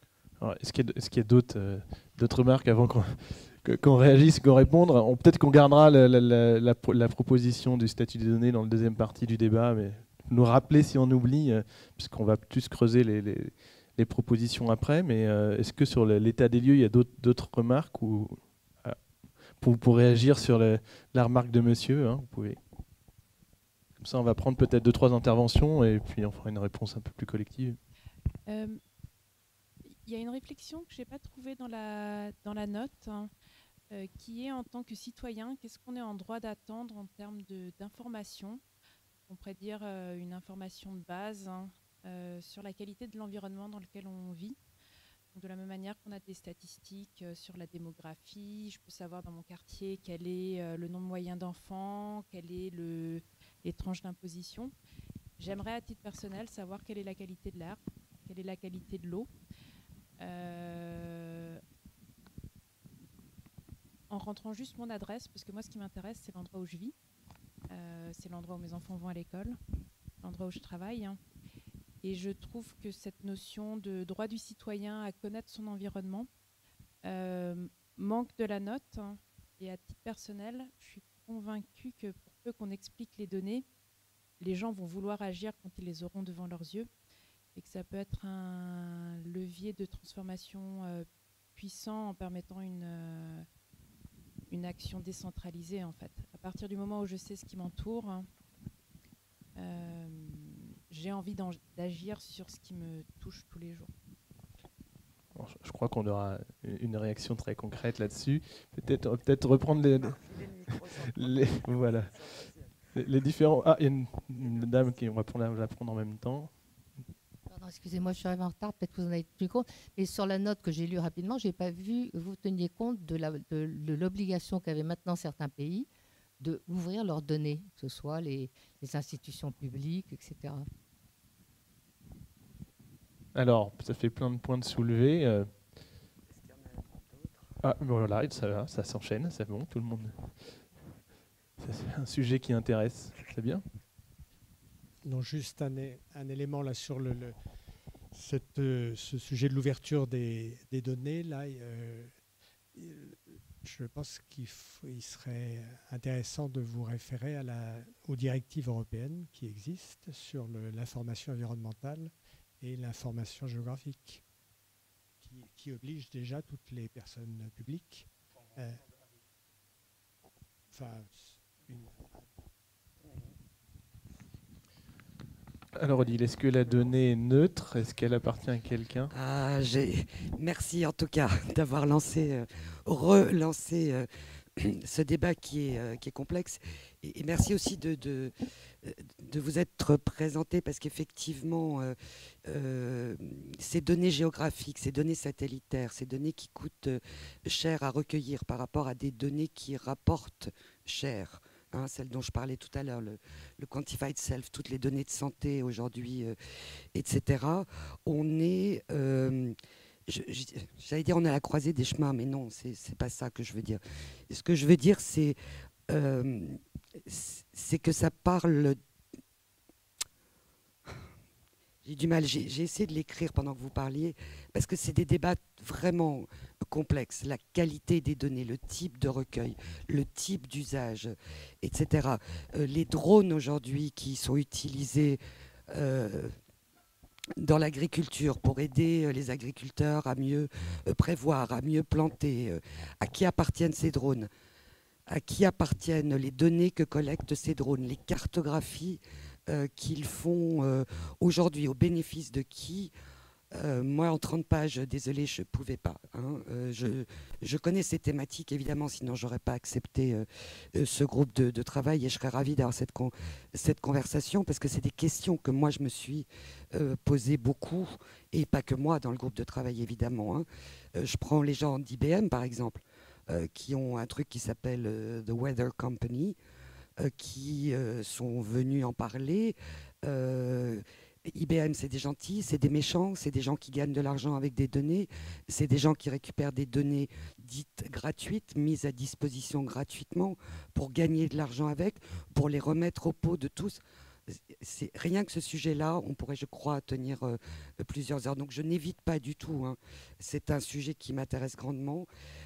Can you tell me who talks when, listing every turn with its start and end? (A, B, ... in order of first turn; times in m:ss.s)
0:00.4-0:19.0 A
0:19.6-0:22.6 A
0:24.0-0:27.8 A
0:28.5-0:28.8 B
0:30.0-0:33.3 B
0:33.9-0:38.6 B
0:39.2-0:44.6 B
0:45.3-0:54.7 B
0:55.4-0:59.3 B
1:00.2-1:01.6 B
1:04.1-1:06.9 B
1:07.7-1:09.6 B
1:10.2-1:11.2 B
1:12.0-1:16.3 B
1:17.0-1:23.6 B
1:24.4-1:26.9 B
1:27.5-1:33.4 B
1:34.5-1:38.3 B
1:39.6-1:43.9 B
1:45.3-1:52.2 A
1:50.3-1:51.6 C
1:52.9-1:56.5 A
1:57.5-2:05.9 D
2:06.4-2:10.7 D
2:13.3-2:15.5 A
2:16.3-2:17.5 C
2:17.6-2:20.3 A
2:21.6-2:23.6 A
2:25.0-2:27.4 E
2:28.1-2:32.1 E
2:32.7-2:44.2 E
2:45.2-2:48.8 E
2:50.7-2:52.1 E
2:55.7-2:59.1 A
2:59.1-3:26.4 C
3:26.9-3:35.4 C
3:35.9-3:38.8 C
3:41.8-3:56.3 C
3:57.4-4:04.3 C
4:05.1-4:12.9 C
4:13.5-4:36.4 C
4:37.0-5:02.1 C